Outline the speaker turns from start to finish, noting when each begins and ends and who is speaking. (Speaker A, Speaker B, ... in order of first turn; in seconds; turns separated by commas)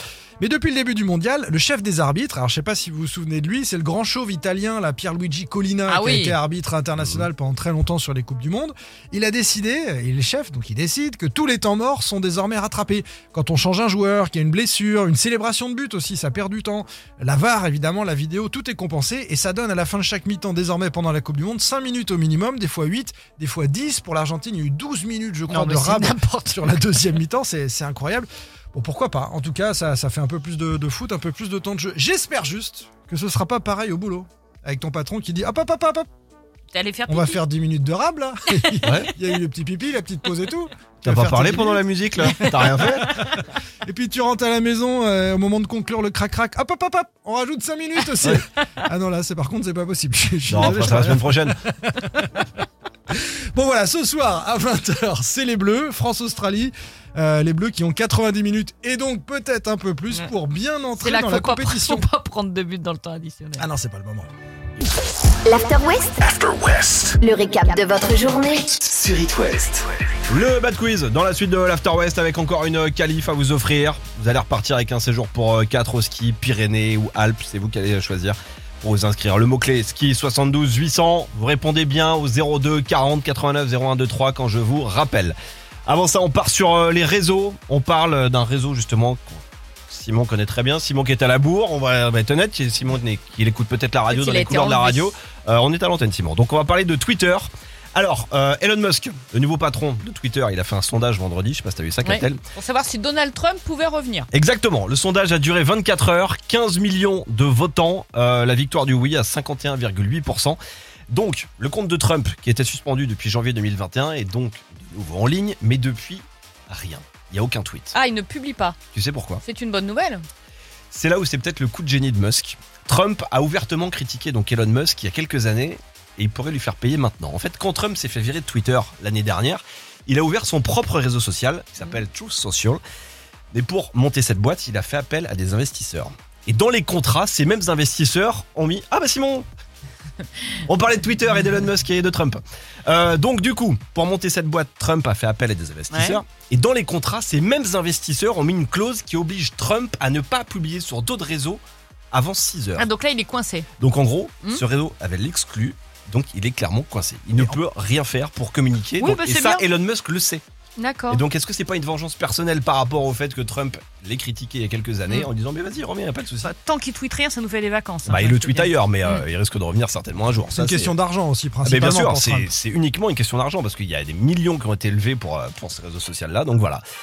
Speaker A: 0.4-36.1, Speaker B: 5.9-6.4, Speaker C: 7.0-7.3, Speaker B: 25.5-26.8, Speaker B: 36.7-37.4, Speaker A: 37.1-52.5, Speaker C: 38.8-39.1, Speaker C: 41.0-43.2, Speaker C: 50.5-51.6, Speaker A: 53.1-62.0, Speaker B: 61.0-63.6, Speaker A: 63.6-64.3, Speaker D: 65.5-66.3, Speaker E: 66.2-67.2, Speaker D: 67.2-68.9, Speaker E: 68.8-69.9, Speaker C: 70.3-102.4, Speaker B: 94.1-95.1, Speaker B: 102.0-104.3, Speaker C: 104.3-110.6, Speaker C: 111.1-118.0, Speaker B: 117.9-118.8, Speaker C: 118.9-119.4, Speaker B: 119.4-120.2, Speaker C: 120.9-132.8, Speaker C: 133.5-139.5, Speaker C: 140.7-152.9, Speaker B: 145.9-146.2, Speaker B: 152.8-153.7, Speaker C: 153.8-160.4, Speaker A: 157.4-157.6, Speaker B: 159.0-159.7, Speaker B: 160.8-161.2, Speaker C: 161.1-166.5, Speaker B: 166.4-169.2, Speaker C: 168.1-170.9, Speaker A: 170.5-172.5, Speaker C: 171.6-176.8